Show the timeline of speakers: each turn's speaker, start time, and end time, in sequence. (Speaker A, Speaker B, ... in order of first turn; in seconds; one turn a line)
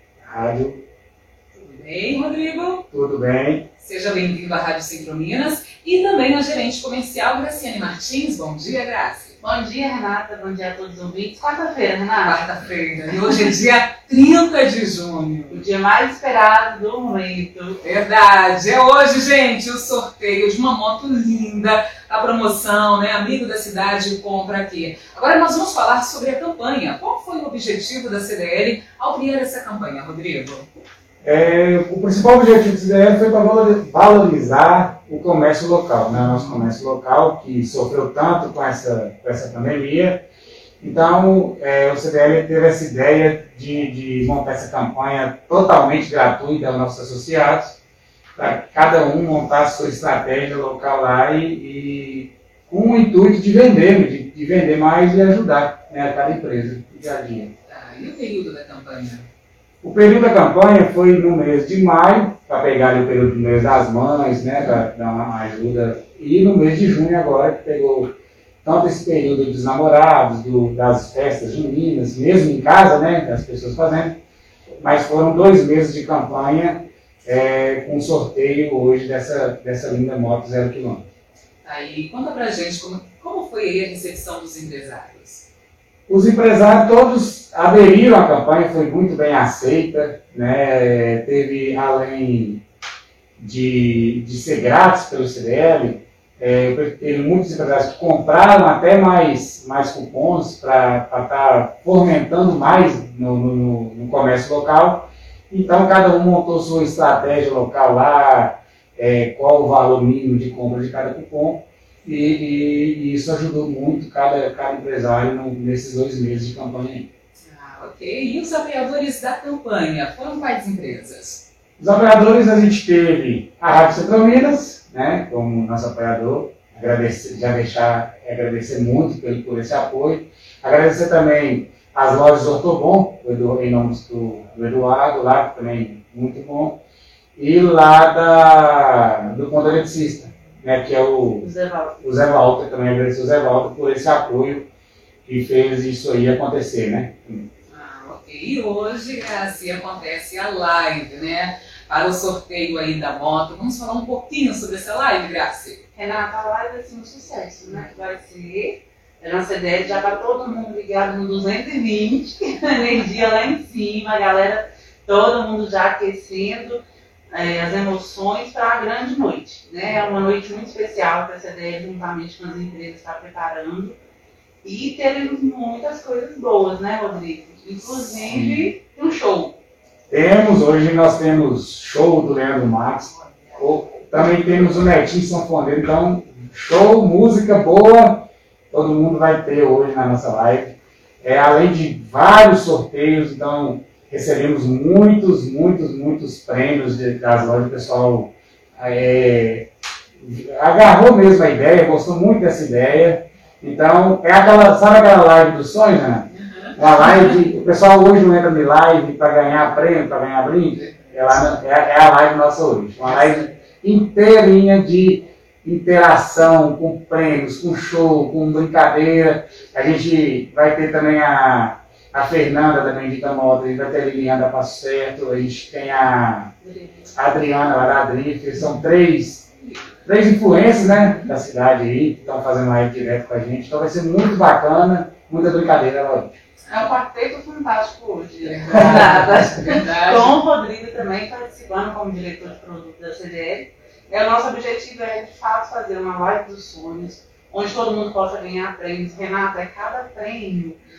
Speaker A: 0.2-0.8
Speaker B: 1.6-2.8
Speaker A: 2.9-3.7
Speaker B: 3.8-9.4
Speaker C: 9.4-12.4
Speaker B: 12.2-15.6
Speaker C: 15.5-17.8
Speaker B: 17.8-30.7
Speaker A: 31.2-40.2
Speaker B: 36.3-36.6
Speaker A: 40.8-47.8
Speaker A: 48.4-57.5
Speaker B: 57.7-59.3
Speaker A: 59.8-68.1
Speaker A: 68.6-74.2
Speaker A: 74.8-81.0
Speaker B: 81.6-85.5
Speaker A: 86.1-92.6
Speaker A: 93.4-117.1
Speaker B: 117.5-121.5
Speaker A: 121.8-136.8
Speaker A: 137.4-141.5
Speaker C: 141.4-141.9
Speaker A: 142.0-144.7
Speaker A: 145.3-147.5
Speaker B: 147.7-155.8
Speaker C: 156.0-166.8
Speaker C: 167.3-174.0
Speaker C: 174.6-179.6
Speaker A: 178.2-178.7
Speaker A: 180.1-226.5
Speaker B: 206.4-206.8
Speaker C: 226.6-227.1
Speaker A: 227.2-229.5
Speaker A: 230.1-236.4
Speaker C: 236.7-250.8
Speaker B: 238.4-240.4